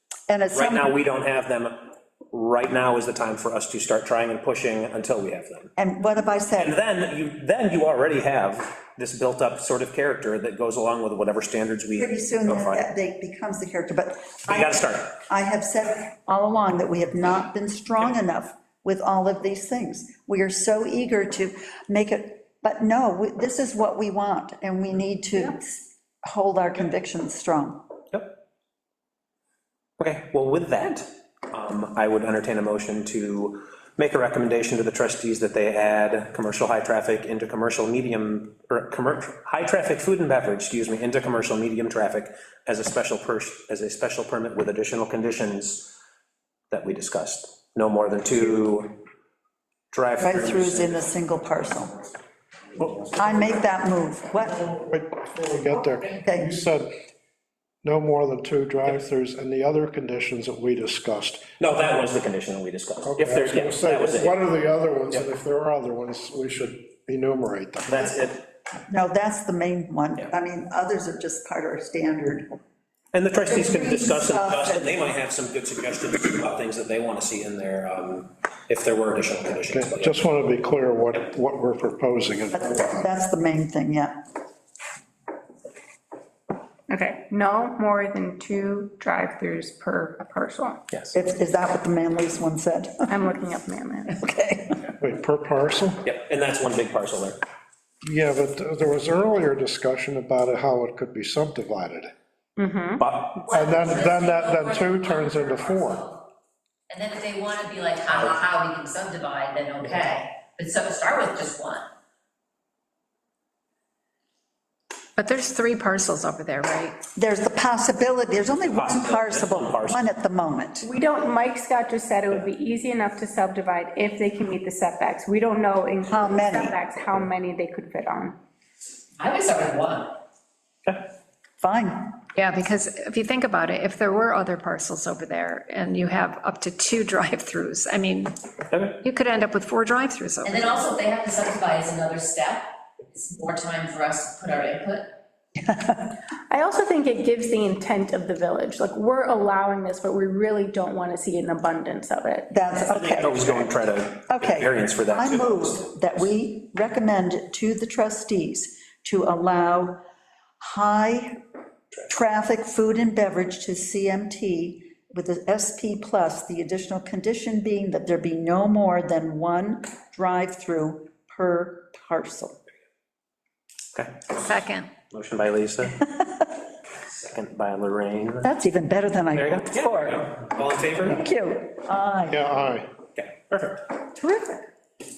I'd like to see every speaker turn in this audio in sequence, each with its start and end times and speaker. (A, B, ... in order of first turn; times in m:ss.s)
0:00.3-0:00.9 A
0:00.5-0:01.7 B
0:02.3-0:05.7 B
0:05.8-0:06.8 A
0:06.6-0:12.9 B
0:12.0-0:27.8 A
0:14.5-0:15.1 B
0:30.0-0:45.9 B
0:46.7-0:49.0 B
0:49.9-0:51.1 B
0:50.2-0:52.0 A
0:53.2-0:54.6 A
0:54.6-0:56.9 C
0:56.2-0:56.6 A
0:57.8-1:01.5 C
1:01.6-1:04.3 B
1:03.0-1:08.2 C
1:07.9-1:08.5 B
1:08.9-1:12.5 A
1:13.1-1:20.1 B
1:13.5-1:15.0 A
1:19.7-1:23.1 C
1:22.6-1:24.2 A
1:26.9-1:30.8 D
1:31.1-1:33.2 A
1:33.1-1:34.2 D
1:34.1-1:34.9 A
1:35.0-1:36.0 C
1:36.0-1:37.4 B
1:38.0-1:42.1 C
1:42.6-1:43.0 D
1:43.0-1:43.3 B
1:43.4-1:46.2 E
1:43.4-1:46.2 C
1:46.9-1:51.9 E
1:55.2-1:57.0 F
1:57.2-2:00.9 A
1:58.6-2:00.0 B
2:00.8-2:08.4 D
2:06.1-2:06.7 A
2:09.2-2:10.2 E
2:11.6-2:12.2 A
2:12.4-2:18.3 F
2:18.7-2:19.0 B
2:19.0-2:20.8 F
2:20.4-2:25.1 E
2:25.6-2:26.1 A
2:26.5-2:32.6 D
2:32.5-2:33.6 A
2:32.9-2:36.2 B
2:34.3-2:40.0 A
2:40.6-2:41.4 A
2:42.1-2:52.6 A
2:53.9-2:54.5 B
2:54.4-2:55.0 F
2:55.0-2:56.1 B
2:57.1-2:58.5 B
2:58.4-3:00.3 A
2:59.3-3:01.2 B
3:01.0-3:02.7 A
3:02.3-3:02.9 C
3:03.1-3:03.9 B
3:04.2-3:04.7 A